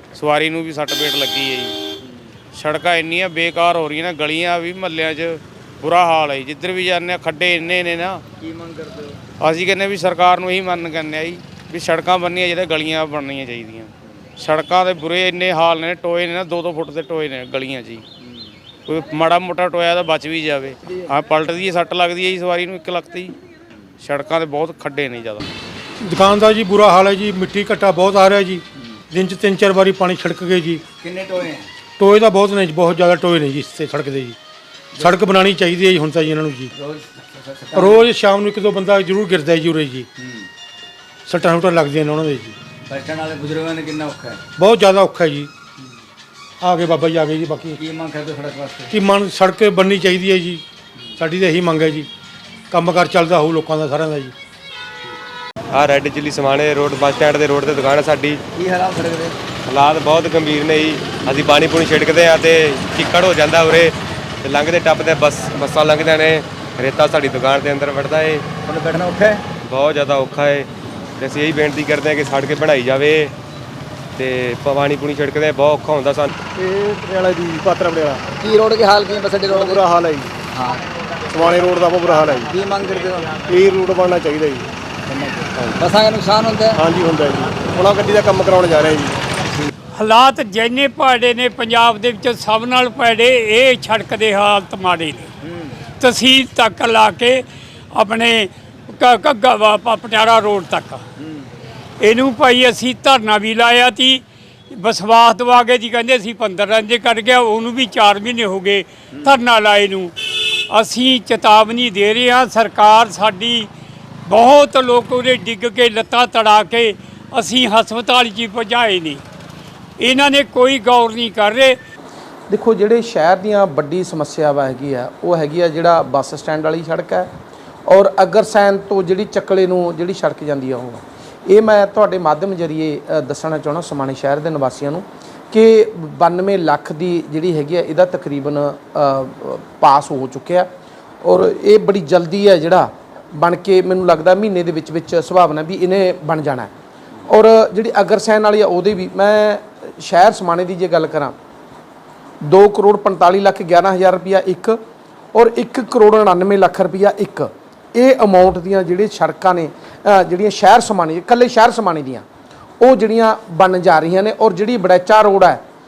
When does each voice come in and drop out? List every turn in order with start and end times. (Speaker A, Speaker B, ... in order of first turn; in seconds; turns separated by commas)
Speaker A: 0.1-1.8, Speaker B: 2.0-2.3, Speaker A: 2.5-8.2, Speaker B: 8.4-9.2, Speaker A: 9.4-18.0, Speaker A: 18.9-23.4, Speaker A: 24.0-25.4, Speaker C: 26.0-30.9, Speaker B: 31.0-31.7, Speaker C: 32.0-34.4, Speaker B: 34.9-35.3, Speaker C: 35.0-36.7, Speaker B: 36.7-38.1, Speaker C: 37.8-40.1, Speaker B: 40.2-40.5, Speaker C: 41.3-42.6, Speaker B: 42.9-44.4, Speaker C: 44.6-45.5, Speaker C: 46.6-47.8, Speaker B: 47.8-48.9, Speaker C: 48.9-50.6, Speaker C: 51.2-52.1, Speaker C: 52.7-54.3, Speaker D: 55.7-58.4, Speaker B: 58.6-59.4, Speaker D: 59.7-68.5, Speaker B: 68.7-69.4, Speaker D: 69.7-73.3, Speaker D: 74.2-76.3, Speaker E: 76.5-78.2, Speaker B: 78.4-79.8, Speaker E: 79.5-80.3, Speaker B: 80.5-80.8, Speaker E: 81.3-82.5, Speaker B: 82.5-83.4, Speaker E: 83.5-84.7, Speaker B: 85.1-86.8, Speaker E: 86.8-89.2, Speaker F: 90.0-95.3, Speaker B: 95.4-95.7, Speaker F: 96.0-101.0, Speaker F: 102.0-110.1, Speaker F: 110.7-113.7, Speaker F: 114.3-119.2, Speaker F: 120.0-121.8, Speaker G: 122.5-127.3, Speaker G: 127.9-140.7, Speaker G: 141.2-146.7, Speaker G: 147.3-151.3, Speaker G: 152.4-154.8, Speaker G: 155.3-162.2, Speaker G: 162.8-165.6